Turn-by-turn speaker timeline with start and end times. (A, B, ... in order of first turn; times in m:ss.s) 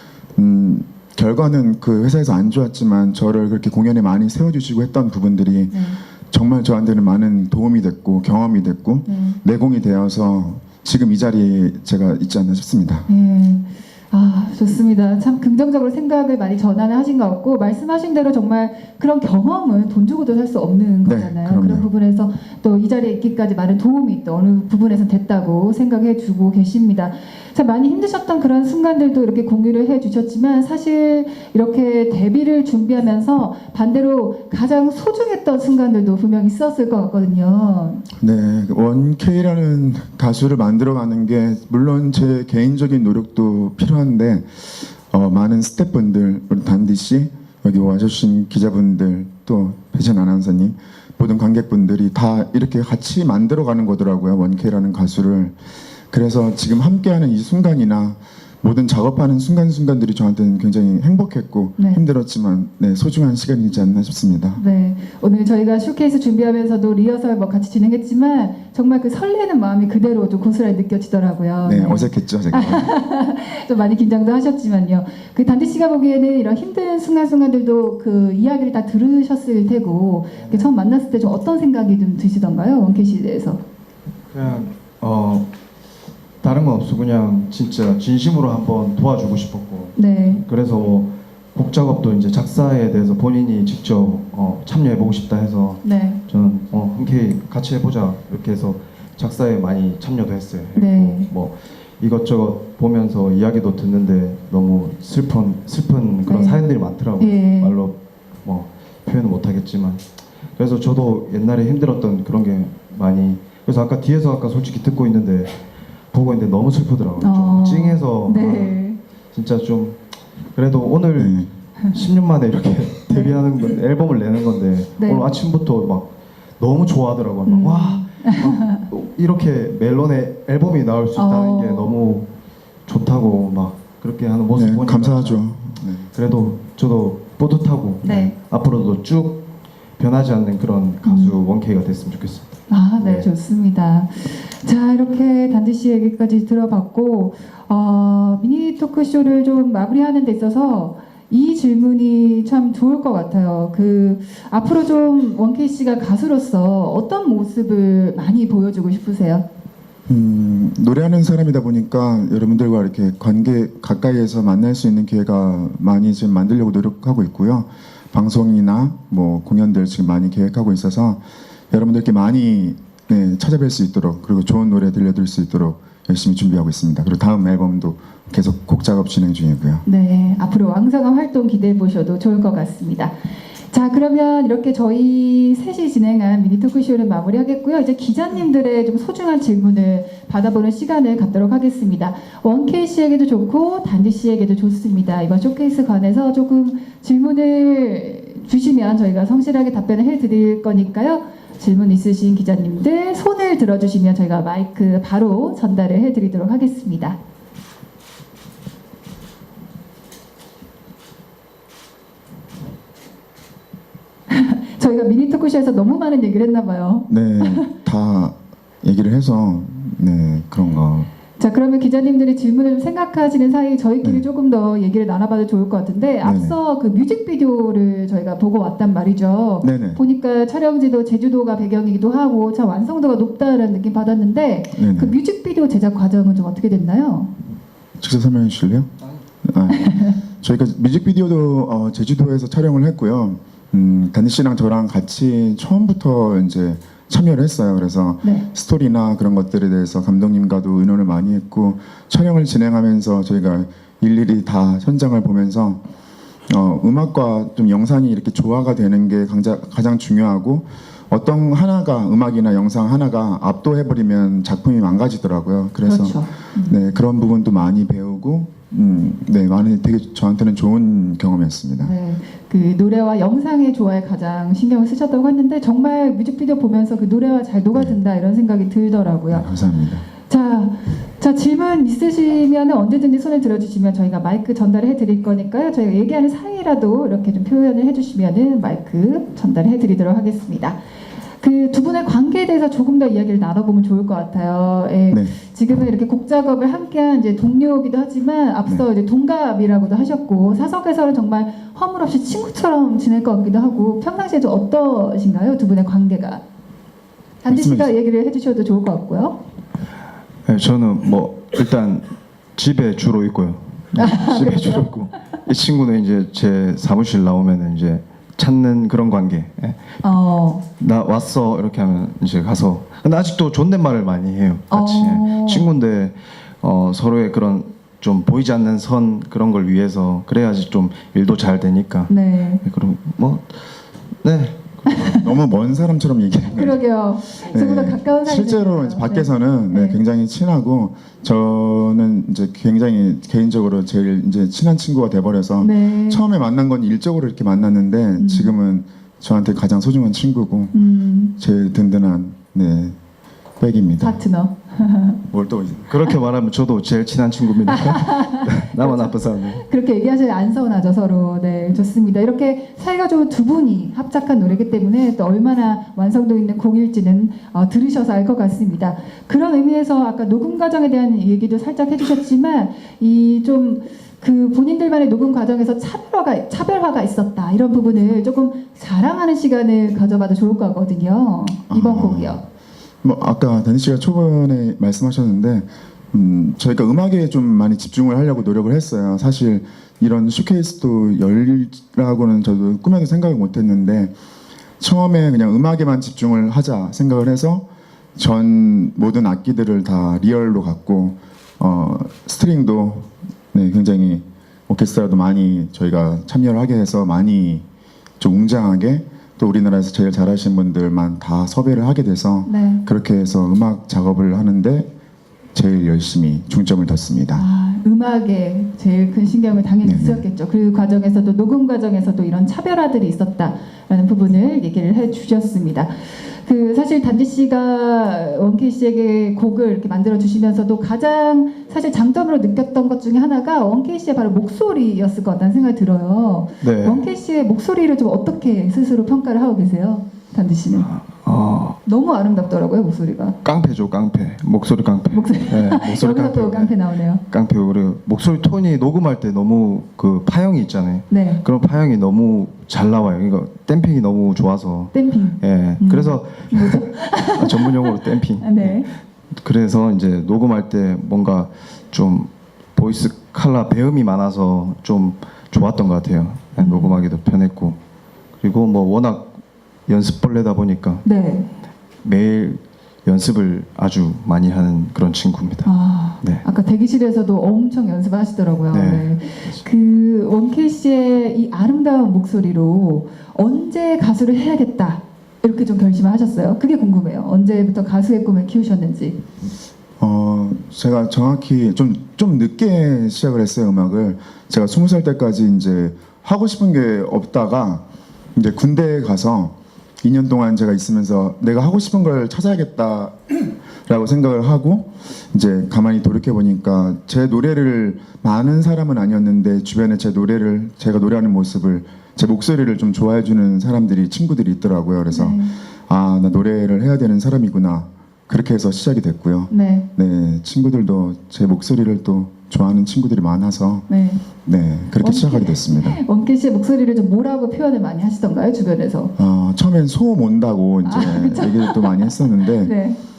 0:00.4-0:13.1 A
0:05.7-0:06.0 B
0:09.1-0:09.4 B
0:13.1-0:38.0 B
0:21.0-0:21.9 A
0:38.2-0:55.6 A
0:56.1-1:04.6 A
1:04.6-1:23.6 B
1:11.6-1:12.9 A
1:20.3-1:20.7 C
1:24.3-1:25.5 C
1:26.4-1:50.0 C
1:30.0-1:30.5 B
1:35.8-1:36.2 B
1:40.8-1:41.3 B
1:46.2-1:46.7 B
1:47.2-1:47.8 B
1:50.6-2:00.0 C
1:57.2-1:59.0 B
2:00.5-2:12.3 C
2:01.2-2:01.5 A
2:03.1-2:03.4 B
2:05.0-2:05.3 B
2:07.5-2:08.9 B
2:11.2-2:12.0 B
2:12.9-2:15.4 C
2:14.6-2:16.1 A
2:16.1-2:23.3 C
2:18.0-2:18.4 B
2:21.0-2:21.4 B
2:22.7-2:39.5 B
2:40.1-2:59.8 A
2:59.8-3:03.2 B
3:03.7-3:27.2 B
3:34.3-3:37.7 B
3:37.1-3:41.1 A
3:41.4-3:57.3 B
3:46.2-3:46.6 A
3:49.6-3:50.0 A
3:54.7-3:55.2 A
3:58.0-3:58.9 A
3:59.4-4:15.8 A
3:59.7-4:00.2 B
4:08.2-4:08.5 B
4:16.5-4:32.0 A
4:25.8-4:26.8 B
4:31.8-4:39.5 B
4:39.3-4:40.1 A
4:40.2-4:50.8 B
4:51.4-5:06.4 B
4:55.1-4:55.4 A
5:07.4-5:09.4 B
5:07.5-5:08.0 A
5:10.5-5:20.0 C
5:13.9-5:14.9 B
5:20.0-5:20.6 B
5:20.8-5:35.1 C
5:24.7-5:25.7 B
5:32.1-5:32.6 B
5:34.9-5:35.2 B
5:35.0-5:36.8 A
5:36.5-5:40.0 B
5:37.4-5:50.8 A
5:45.6-5:46.2 B
5:48.2-5:48.6 B
5:50.7-5:51.4 B
5:51.4-5:53.0 A
5:53.6-5:54.2 A
5:54.0-5:55.2 B
5:55.3-5:55.9 A
5:55.9-5:59.6 C
5:57.7-6:22.4 B
6:21.7-6:22.4 A
6:23.0-6:34.1 A
6:34.8-6:37.7 A
6:38.2-6:47.6 A
6:48.2-6:54.9 A
6:52.5-6:52.8 B
6:55.5-6:57.4 A
6:57.4-7:20.9 B
6:59.8-7:00.2 A
7:16.6-7:17.1 C
7:20.7-7:21.8 C
7:21.8-7:23.4 B
7:23.4-7:47.8 C
7:25.1-7:27.2 B
7:31.1-7:31.4 B
7:34.9-7:38.9 B
7:46.6-7:47.0 B
7:48.4-7:51.0 C
7:51.0-7:51.5 B
7:52.0-7:56.4 C
7:55.6-8:09.2 B
7:58.7-7:59.6 C
8:10.0-8:43.9 A
8:35.1-8:35.6 B
8:39.5-8:39.9 B
8:43.9-8:44.2 B
8:44.4-8:46.0 A
8:45.0-8:49.1 B
8:49.2-8:52.8 A
8:50.8-8:53.0 B